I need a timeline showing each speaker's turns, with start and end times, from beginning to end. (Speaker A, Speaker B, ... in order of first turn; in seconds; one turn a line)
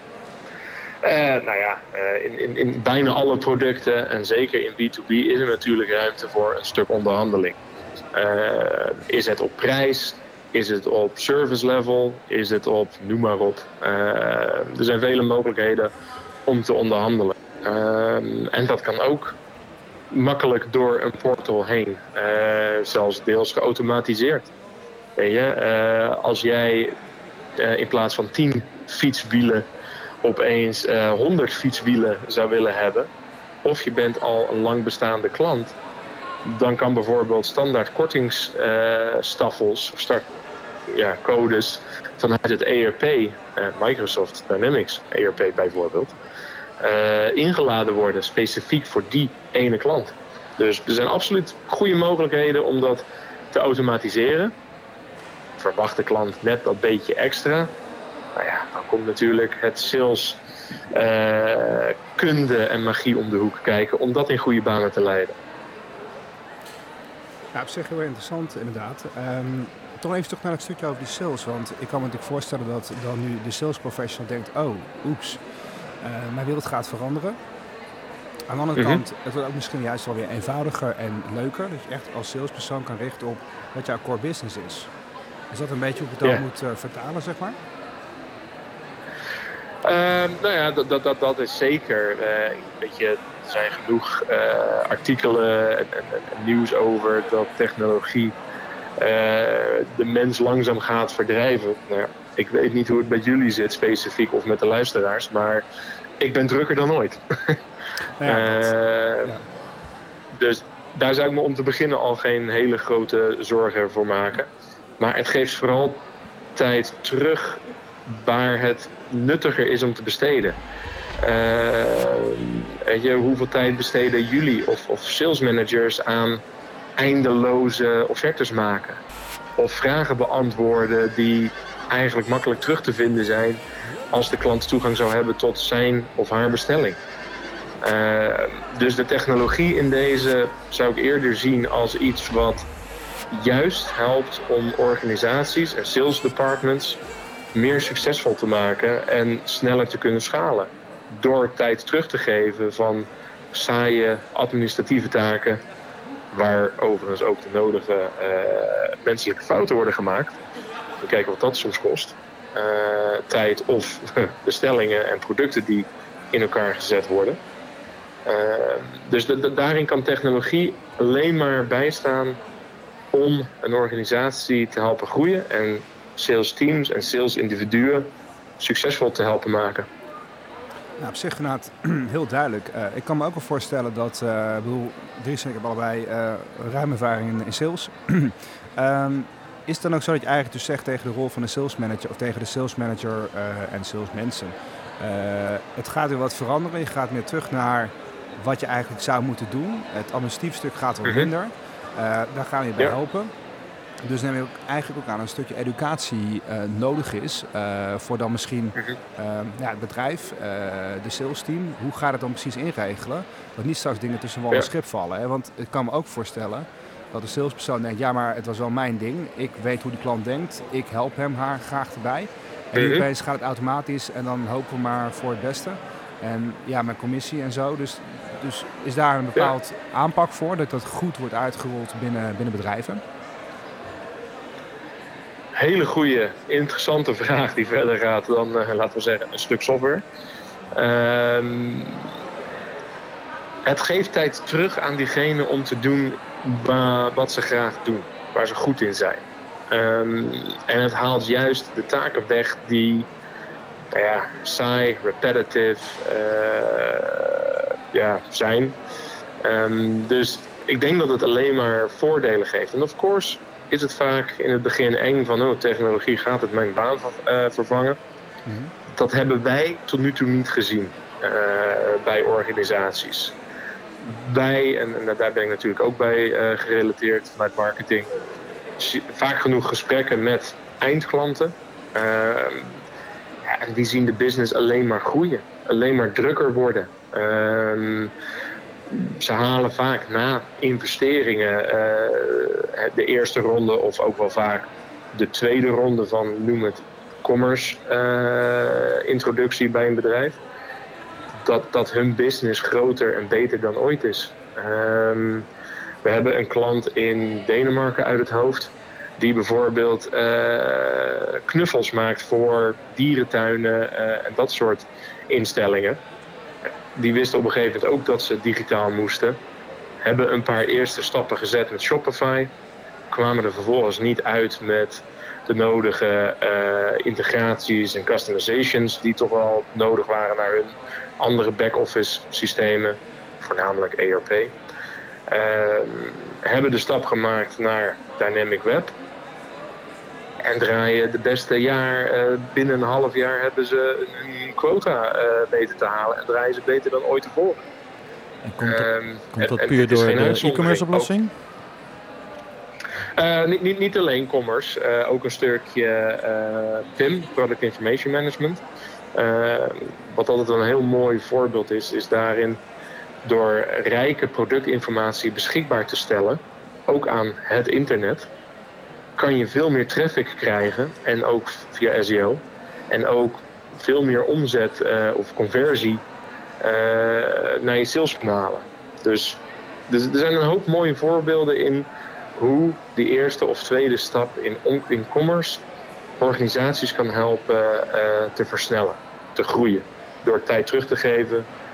Speaker A: 1.0-7.6
Speaker A: 8.1-15.9
Speaker A: 16.4-19.4
Speaker A: 20.1-24.5
Speaker A: 25.2-26.9
Speaker A: 27.6-29.6
Speaker A: 30.2-33.1
Speaker A: 33.6-35.7
Speaker A: 36.4-40.3
Speaker A: 40.9-46.1
Speaker A: 46.8-54.5
Speaker A: 55.6-57.7
Speaker A: 58.3-60.4
Speaker A: 60.9-65.3
Speaker B: 67.5-75.4
Speaker B: 76.0-77.4
Speaker B: 78.5-84.9
Speaker A: 78.8-79.0
Speaker B: 85.5-87.5
Speaker A: 89.8-98.3
Speaker A: 99.0-105.6
Speaker A: 106.2-107.6
Speaker B: 108.2-108.6
Speaker A: 108.2-109.4
Speaker A: 110.3-114.5
Speaker A: 115.0-116.0
Speaker A: 116.5-120.6
Speaker A: 121.2-126.4
Speaker A: 127.0-129.0
Speaker A: 129.6-133.6
Speaker A: 134.1-137.0
Speaker A: 137.8-142.7
Speaker A: 143.3-147.0
Speaker A: 147.5-155.6
Speaker A: 156.3-160.4
Speaker A: 161.0-167.4
Speaker A: 168.2-172.4
Speaker A: 173.1-179.9
Speaker B: 181.0-203.3
Speaker A: 201.0-201.3
Speaker B: 204.0-233.0
Speaker A: 222.8-223.0
Speaker A: 235.5-240.0
Speaker A: 240.7-242.1
Speaker A: 243.6-253.1
Speaker A: 253.9-258.8
Speaker A: 259.4-268.0
Speaker B: 268.4-268.7
Speaker A: 268.9-273.3
Speaker A: 274.0-278.1
Speaker A: 278.8-282.8
Speaker A: 283.4-288.1
Speaker A: 288.9-300.4
Speaker A: 301.4-305.5
Speaker A: 306.0-316.0
Speaker A: 316.9-319.4
Speaker A: 320.0-322.5
Speaker A: 323.1-334.5
Speaker A: 335.3-338.9
Speaker A: 340.4-347.6
Speaker C: 348.4-351.3
Speaker A: 348.6-351.1
Speaker A: 353.1-358.6
Speaker A: 359.1-362.6
Speaker A: 363.2-368.3
Speaker A: 369.2-376.0
Speaker A: 376.6-385.6
Speaker A: 386.2-391.5